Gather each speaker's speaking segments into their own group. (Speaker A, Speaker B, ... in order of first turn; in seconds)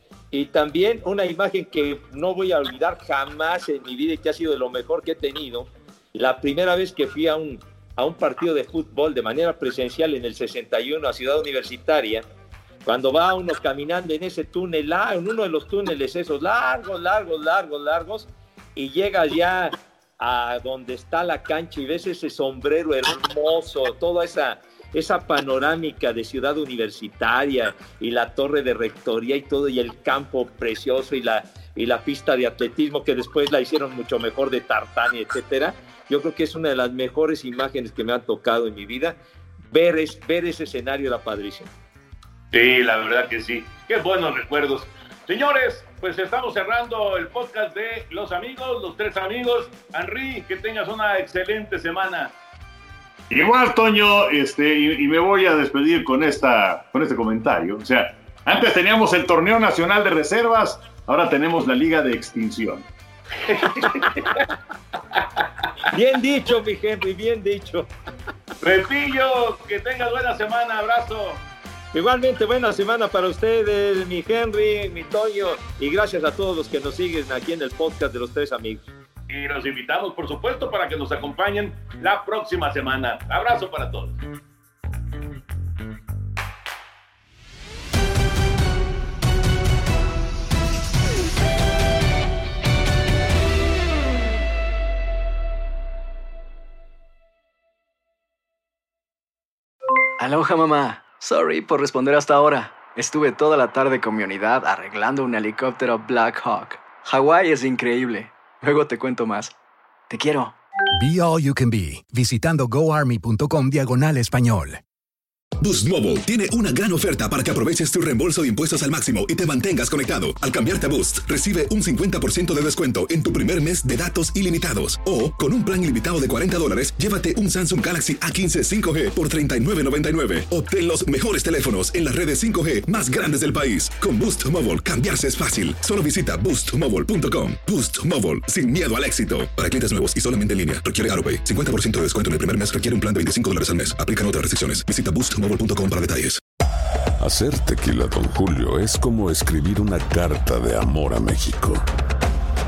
Speaker A: 0.3-12.3, 12.8-39.2, 39.7-41.7, 65.9-67.9, 71.9-78.9
Speaker B: 42.5-52.3, 63.4-64.5, 65.2-65.4, 68.6-71.4, 79.3-84.2
Speaker C: 53.3-62.9
Speaker D: 100.2-109.5, 110.1-110.6
Speaker E: 111.0-114.8
Speaker F: 115.6-146.4
Speaker G: 147.2-151.8